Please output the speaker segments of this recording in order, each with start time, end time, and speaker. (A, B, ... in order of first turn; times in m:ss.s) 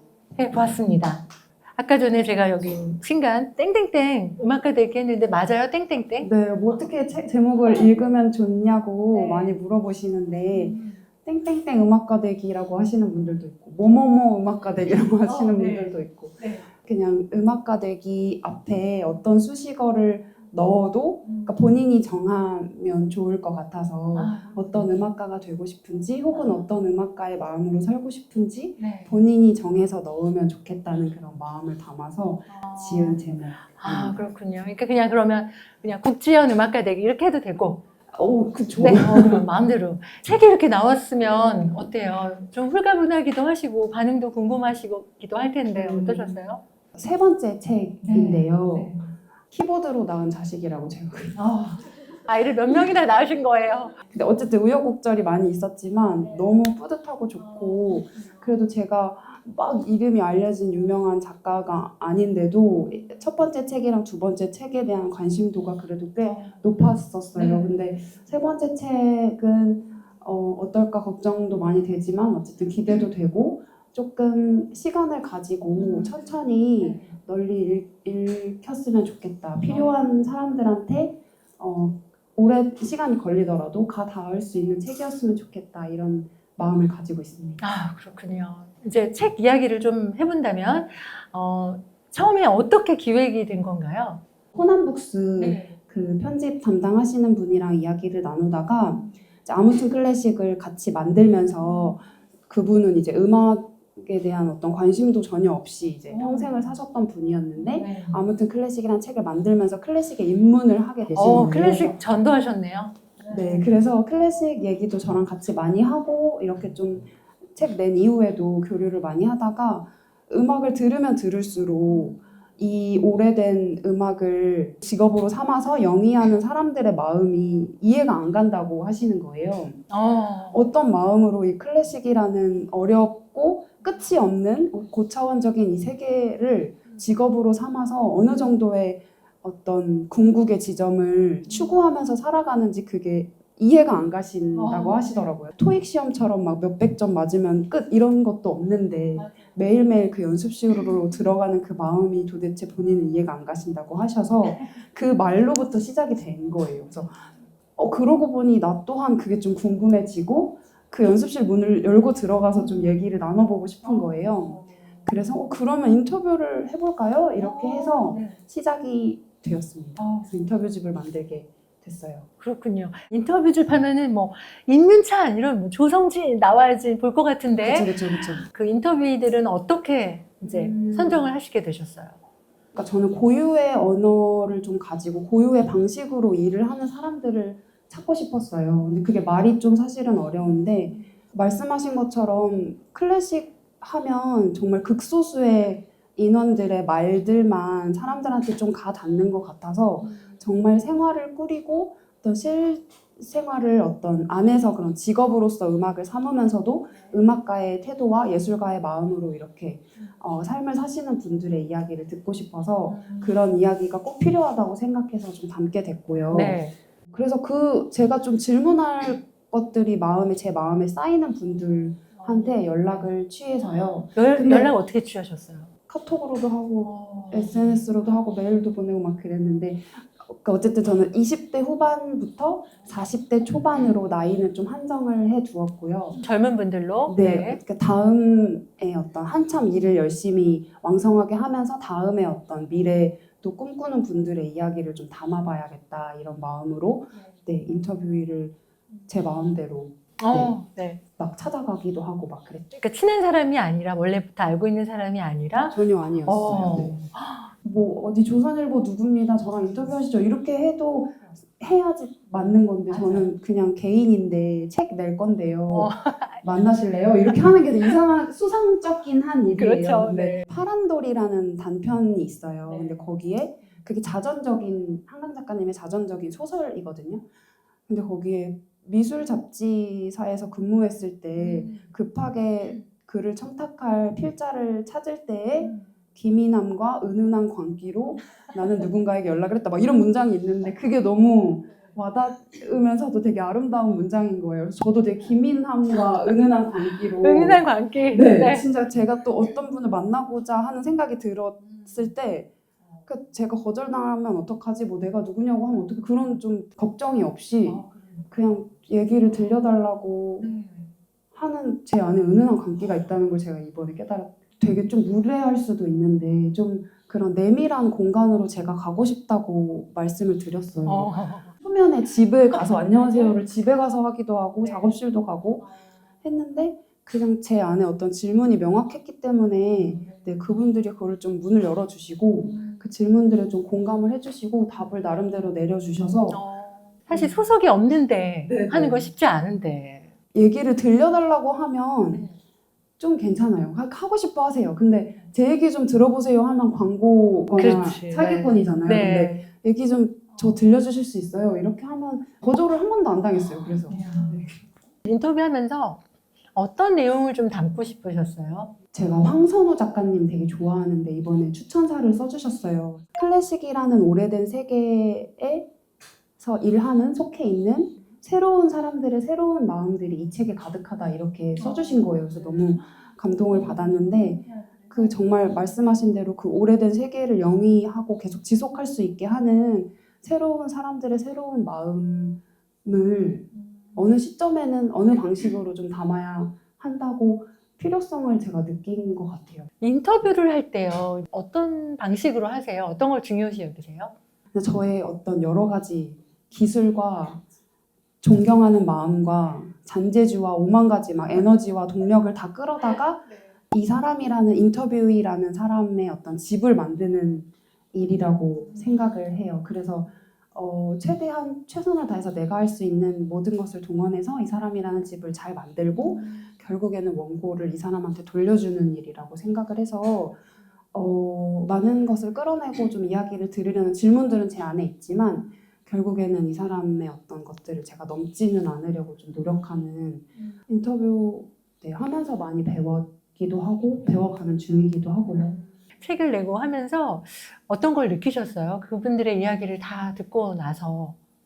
0:00.4-0:06.8 A
0:06.2-0:34.2 B
0:07.6-0:07.9 A
0:09.1-0:09.6 A
0:10.5-0:11.0 A
0:14.6-0:16.7 A
0:21.2-0:21.7 A
0:24.1-0:25.0 A
0:26.3-0:26.7 A
0:28.8-0:29.2 A
0:32.5-0:37.8 A
0:38.1-0:39.5 B
0:38.8-0:46.6 A
0:45.7-0:46.4 B
0:47.0-0:49.0 B
0:48.0-0:49.1 A
0:49.5-0:51.4 B
0:51.3-0:54.0 A
0:54.1-1:27.6 B
0:56.2-0:56.6 A
0:57.4-0:58.5 A
1:06.2-1:06.6 A
1:07.3-1:08.2 A
1:15.8-1:17.2 A
1:19.7-1:20.0 A
1:27.6-1:34.2 A
1:34.5-1:52.0 B
1:35.4-1:35.8 A
1:39.0-1:39.2 A
1:41.6-1:42.0 A
1:46.1-1:46.7 A
1:47.6-1:48.2 A
1:51.1-1:53.7 A
1:53.3-2:09.8 B
2:01.9-2:02.3 A
2:09.9-2:10.6 A
2:10.5-2:37.2 B
2:13.8-2:14.1 A
2:16.9-2:17.1 A
2:21.5-2:21.9 A
2:24.5-2:25.3 A
2:29.2-2:29.5 A
2:30.7-2:31.3 A
2:36.9-2:37.4 A
2:37.8-2:52.3 B
2:42.5-2:43.0 A
2:43.8-2:45.2 A
2:47.4-2:48.4 A
2:50.0-2:50.3 A
2:52.4-3:02.2 A
2:57.6-2:58.4 B
3:00.4-3:01.4 B
3:02.7-3:44.7 B
3:10.9-3:11.1 A
3:20.0-3:20.5 A
3:26.9-3:27.2 A
3:32.9-3:33.4 A
3:36.3-3:36.8 A
3:42.1-3:43.1 A
3:44.1-3:45.7 A
3:45.9-3:56.2 B
3:46.8-3:47.9 A
3:56.1-3:57.6 A
3:57.1-4:08.6 B
4:07.1-4:07.4 A
4:09.1-4:10.6 B
4:10.2-4:11.0 A
4:11.2-4:12.7 B
4:12.7-4:17.5 A
4:15.7-4:17.0 B
4:17.6-4:25.9 B
4:22.4-4:23.3 A
4:25.7-4:28.0 A
4:26.4-4:37.2 B
4:29.6-4:30.5 A
4:32.7-4:33.8 A
4:37.9-5:02.5 B
4:41.3-4:41.9 A
4:42.6-4:42.9 A
4:45.6-4:45.9 A
4:55.9-4:58.7 A
5:01.6-5:02.1 A
5:03.1-5:10.5 B
5:07.6-5:08.3 A
5:10.4-5:10.9 A
5:11.3-5:25.7 B
5:20.8-5:21.6 A
5:22.5-5:23.4 A
5:24.6-5:25.0 A
5:25.6-5:25.9 A
5:26.2-5:36.4 B
5:29.7-5:30.5 A
5:32.4-5:32.9 A
5:36.3-5:40.1 A
5:37.1-5:37.4 B
5:38.5-5:39.1 B
5:40.3-5:42.3 B
5:42.1-5:42.4 A
5:43.0-5:54.6 B
5:47.5-5:49.5 A
5:50.3-5:50.7 A
5:53.6-5:54.5 A
5:55.0-5:56.0 A
5:56.6-5:58.8 A
5:58.9-6:05.7 B
6:06.4-6:29.7 B
6:11.6-6:12.9 A
6:13.5-6:15.3 A
6:23.5-6:24.1 A
6:29.8-6:34.1 A
6:34.5-6:37.4 B
6:38.2-7:00.4 B
6:48.7-6:49.0 A
6:55.9-6:56.5 A
7:00.9-7:15.6 B
7:10.4-7:10.6 A
7:15.3-7:21.2 A